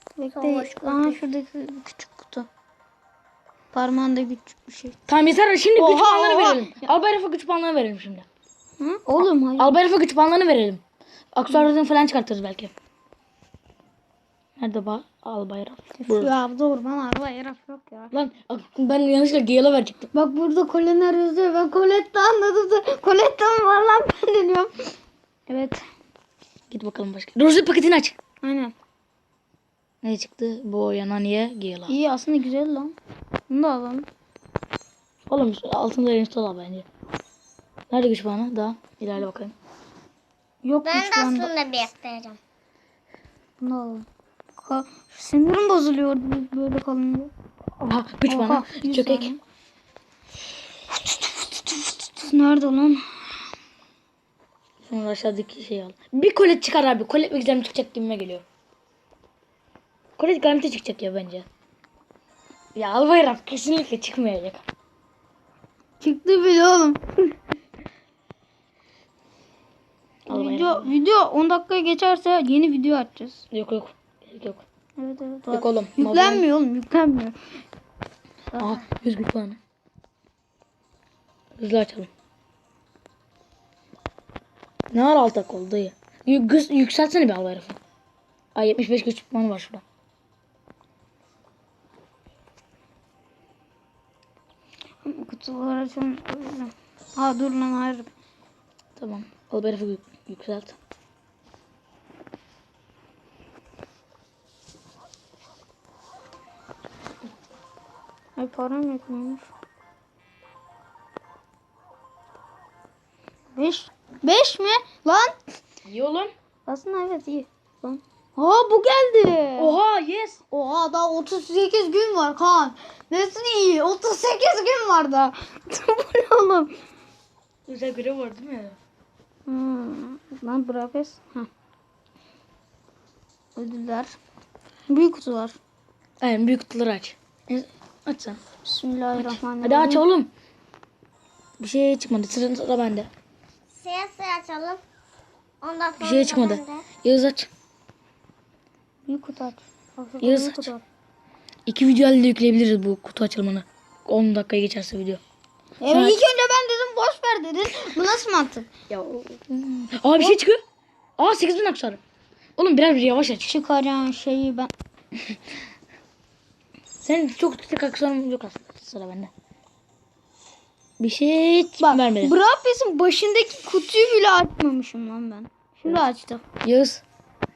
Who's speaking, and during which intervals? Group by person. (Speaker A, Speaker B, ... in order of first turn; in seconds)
Speaker A: 0.2-2.5, 3.7-5.0, 5.8-6.9, 8.8-9.8, 16.0-18.1, 20.1-24.9, 25.5-25.8, 28.4-28.7, 31.9-33.0, 33.5-34.1, 40.6-41.5, 43.6-44.1, 44.6-47.3, 48.3-49.4, 50.9-53.1, 66.0-67.4, 70.3-73.5, 75.0-77.4, 78.5-78.8, 95.0-98.1, 108.4-109.5, 113.6-115.6, 116.7-119.8, 120.5-126.8, 129.5-131.5, 133.6-134.2, 134.9-135.6, 138.6-140.1, 149.1-150.8, 155.8-158.7, 163.4-164.7, 171.8-176.4
Speaker B: 0.3-1.2, 40.8-42.4, 143.8-144.8, 145.6-146.9
Speaker C: 5.1-8.3, 9.6-10.8, 11.3-12.7, 14.6-16.3, 18.1-20.1, 26.7-28.1, 30.0-31.9, 35.3-36.9, 37.9-39.5, 47.8-49.3, 54.8-58.4, 60.2-61.5, 62.8-64.6, 70.3-70.9, 73.5-74.6, 75.5-76.5, 78.6-79.6, 81.6-82.1, 84.9-87.8, 88.6-89.8, 99.0-100.8, 115.8-116.3, 119.6-120.4, 127.7-128.8, 136.2-138.4, 139.2-140.3, 141.6-143.1, 146.0-147.5, 150.2-150.7, 151.7-155.2, 155.9-156.2, 158.9-160.6, 161.2-162.0, 162.6-163.5, 167.0-169.3, 171.0-172.3, 176.6-177.0